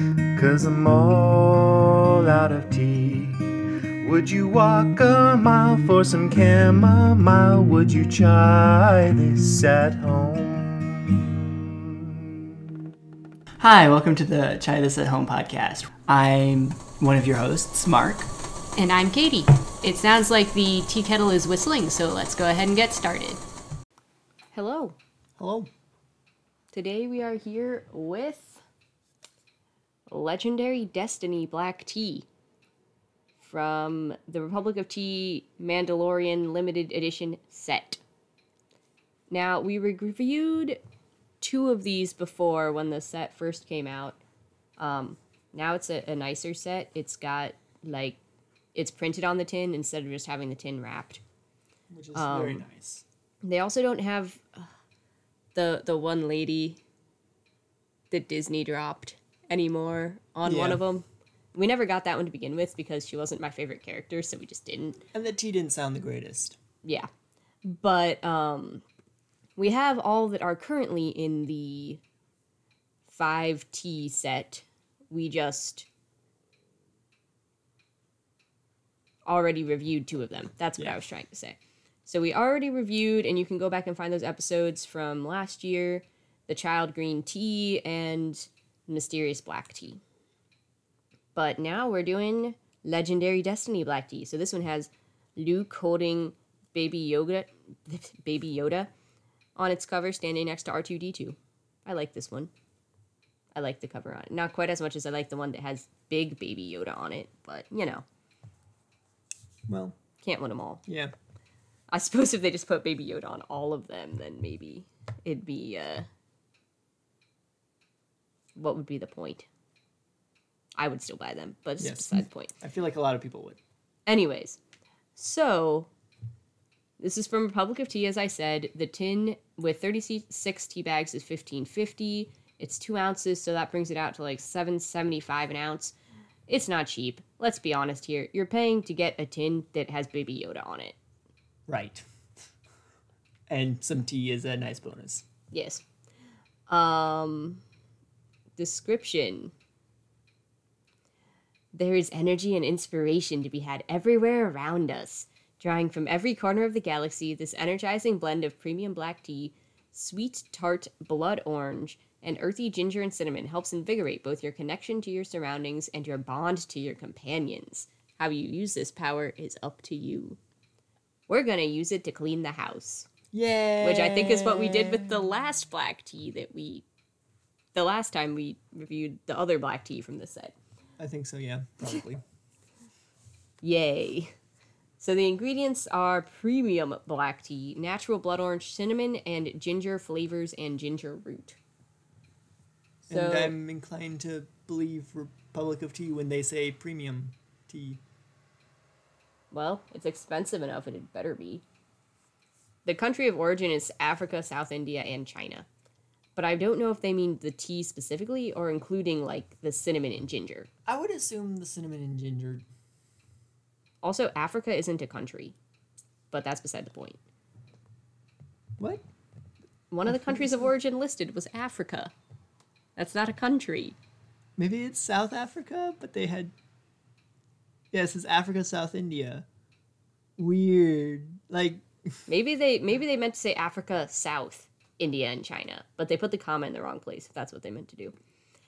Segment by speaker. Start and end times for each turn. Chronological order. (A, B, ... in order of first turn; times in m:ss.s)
0:00.3-0:03.4 A
0:04.0-0:12.4 A
0:13.6-0:18.3 B
0:18.8-0:23.4 C
0:24.5-0:25.0 C
0:25.4-0:25.7 B
0:26.7-0:28.6 C
0:30.1-0:32.3 C
0:33.4-0:38.0 C
0:39.3-0:40.8 C
0:41.4-0:44.2 C
0:44.8-0:48.2 C
0:48.8-0:51.2 C
0:51.9-0:53.0 B
0:52.2-0:52.7 C
0:53.4-0:54.7 C
0:55.5-0:56.8 C
0:58.1-1:05.0 C
1:00.4-1:00.8 B
1:05.1-1:06.6 B
1:07.6-1:08.8 C
1:09.6-1:12.0 C
1:13.1-1:15.9 C
1:19.3-1:30.0 C
1:31.3-1:38.9 C
1:39.6-1:42.5 C
1:43.6-1:48.0 C
1:49.7-1:50.0 B
1:50.2-1:50.8 C
1:50.9-1:51.1 B
1:51.9-1:56.1 C
1:58.6-1:59.5 C
2:00.8-2:02.5 C
2:01.8-2:03.6 B
2:04.1-2:04.6 C
2:05.2-2:05.9 C
2:07.0-2:15.9 C
2:16.5-2:21.0 C
2:21.7-2:22.0 B
2:23.5-2:25.2 B
2:25.5-2:25.8 C
2:26.7-2:27.6 C
2:28.6-2:29.5 C
2:31.7-2:50.4 C
2:51.3-2:53.1 C
2:53.3-2:55.3 B
2:53.8-2:56.8 C
2:57.7-3:00.6 C
3:01.0-3:02.2 B
3:03.6-3:04.3 C
3:05.0-3:11.6 C
3:13.0-3:13.5 C
3:13.0-3:18.0 B
3:19.5-3:21.6 C
3:22.8-3:25.7 C
3:26.4-3:30.7 C
3:30.9-3:32.7 B
3:34.0-3:35.6 C
3:36.3-3:37.2 C
3:39.9-3:42.1 C
3:40.1-3:40.7 B
3:43.0-3:44.0 C
3:44.6-3:46.5 B
3:47.9-3:49.4 B
3:50.4-3:52.2 B
3:52.3-3:58.1 C